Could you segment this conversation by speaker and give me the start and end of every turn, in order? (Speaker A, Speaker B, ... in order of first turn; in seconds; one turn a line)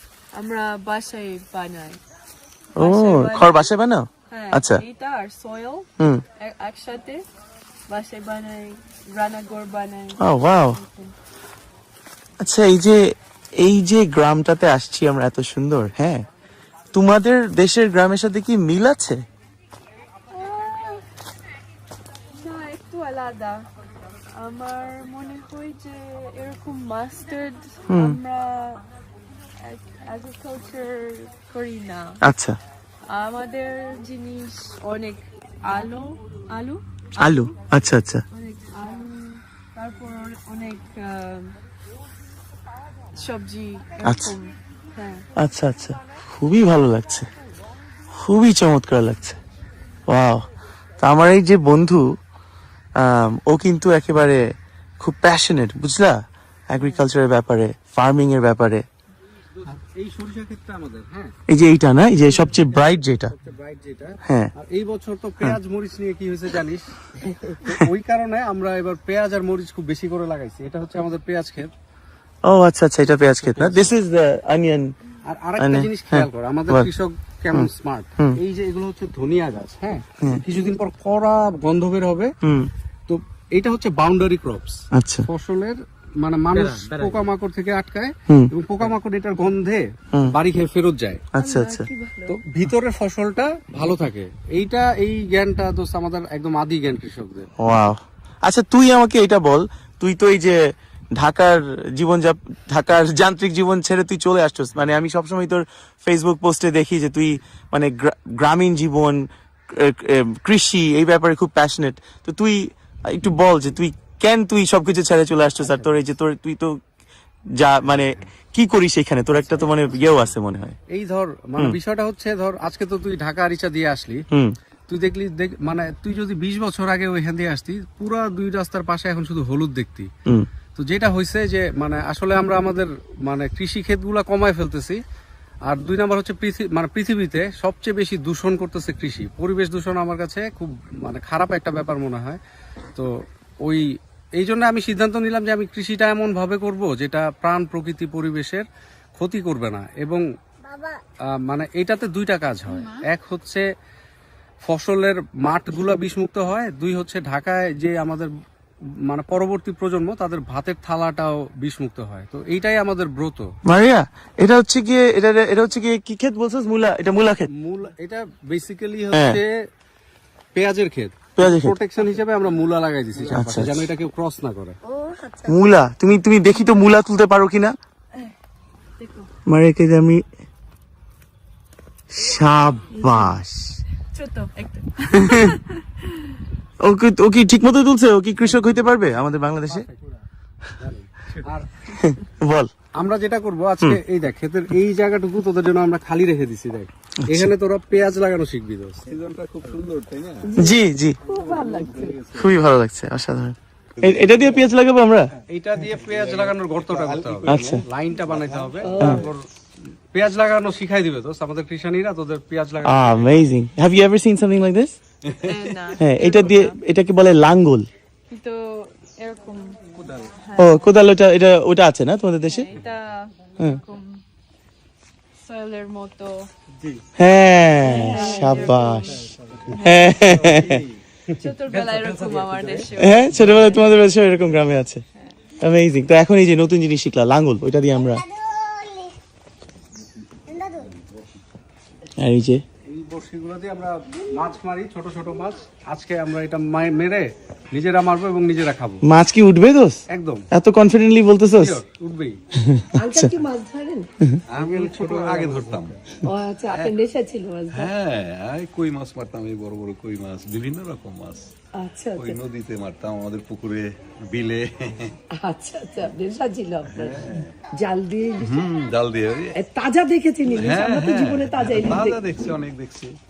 Speaker A: 0.4-2.0
Speaker B: 2.8-4.8
Speaker A: 2.8-3.6
Speaker A: 4.3-5.9
Speaker A: 6.4-7.2
Speaker A: 7.9-10.2
Speaker B: 10.2-10.8
Speaker B: 12.4-13.0
Speaker B: 13.6-16.2
Speaker B: 16.9-19.2
Speaker A: 20.3-21.0
Speaker A: 22.4-23.6
Speaker A: 24.4-28.8
Speaker B: 27.9-28.2
Speaker A: 29.6-32.2
Speaker B: 32.2-32.5
Speaker A: 33.1-36.8
Speaker B: 37.2-38.2
Speaker A: 38.4-41.5
Speaker A: 43.2-45.2
Speaker B: 44.0-44.4
Speaker B: 45.4-47.3
Speaker B: 48.2-49.4
Speaker B: 50.1-50.5
Speaker B: 51.0-52.0
Speaker B: 53.0-54.4
Speaker B: 55.0-56.2
Speaker B: 56.7-58.8
Speaker C: 59.6-61.3
Speaker B: 61.5-63.3
Speaker C: 62.4-66.9
Speaker B: 64.3-64.5
Speaker C: 67.6-71.7
Speaker B: 72.5-74.9
Speaker C: 73.1-73.9
Speaker C: 75.3-82.3
Speaker B: 75.6-76.9
Speaker B: 77.5-78.4
Speaker B: 82.4-82.7
Speaker C: 83.1-91.2
Speaker B: 84.9-85.3
Speaker B: 91.3-91.9
Speaker D: 91.4-92.4
Speaker C: 92.3-97.5
Speaker B: 97.6-100.6
Speaker B: 101.2-116.8
Speaker C: 115.6-116.0
Speaker B: 117.6-120.8
Speaker C: 117.9-118.3
Speaker C: 119.5-120.3
Speaker C: 120.9-124.3
Speaker C: 124.9-130.1
Speaker C: 130.8-135.0
Speaker C: 135.7-142.4
Speaker C: 143.0-143.8
Speaker C: 144.4-148.7
Speaker C: 149.2-150.2
Speaker C: 151.4-153.7
Speaker C: 154.6-158.3
Speaker C: 159.1-163.5
Speaker B: 163.7-167.5
Speaker C: 167.5-169.5
Speaker B: 169.1-169.4
Speaker C: 170.6-174.8
Speaker B: 171.4-171.8
Speaker B: 173.3-173.9
Speaker D: 174.9-175.6
Speaker B: 175.4-177.8
Speaker A: 179.0-179.3
Speaker B: 179.5-180.2
Speaker B: 182.1-183.8
Speaker A: 183.0-183.4
Speaker A: 184.1-185.6
Speaker B: 185.2-185.6
Speaker B: 186.8-189.9
Speaker C: 188.5-188.8
Speaker C: 189.7-190.2
Speaker C: 190.8-191.7
Speaker B: 191.9-192.7
Speaker C: 193.0-199.0
Speaker B: 197.3-197.5
Speaker E: 199.1-200.5
Speaker D: 200.4-202.2
Speaker B: 200.6-201.2
Speaker E: 201.3-202.5
Speaker B: 202.3-205.3
Speaker E: 204.0-204.7
Speaker C: 205.5-209.5
Speaker E: 205.8-209.2
Speaker B: 207.5-207.8
Speaker D: 208.8-209.3
Speaker C: 210.1-213.5
Speaker B: 212.8-215.0
Speaker E: 215.2-215.9
Speaker A: 215.5-216.7
Speaker B: 216.0-217.9
Speaker A: 218.3-219.8
Speaker C: 220.0-220.3
Speaker A: 220.5-220.8
Speaker B: 220.6-222.7
Speaker A: 222.5-224.2
Speaker A: 225.4-226.5
Speaker B: 227.2-229.2
Speaker A: 227.8-229.1
Speaker C: 228.5-229.7
Speaker B: 229.8-230.8
Speaker C: 230.3-233.6
Speaker A: 231.4-233.6
Speaker B: 233.0-235.0
Speaker B: 235.6-238.2
Speaker B: 242.2-242.6
Speaker C: 242.9-249.0
Speaker B: 249.0-251.8
Speaker C: 250.1-250.4
Speaker C: 251.6-252.4
Speaker B: 252.6-253.4
Speaker D: 253.0-254.1
Speaker C: 254.5-256.0
Speaker E: 254.6-256.0
Speaker D: 256.2-257.9
Speaker E: 256.7-256.9
Speaker E: 257.7-261.5
Speaker D: 261.8-262.4
Speaker E: 262.1-265.2
Speaker D: 265.3-268.7
Speaker E: 266.9-267.5
Speaker E: 268.4-269.6
Speaker D: 269.5-272.5
Speaker E: 270.5-273.2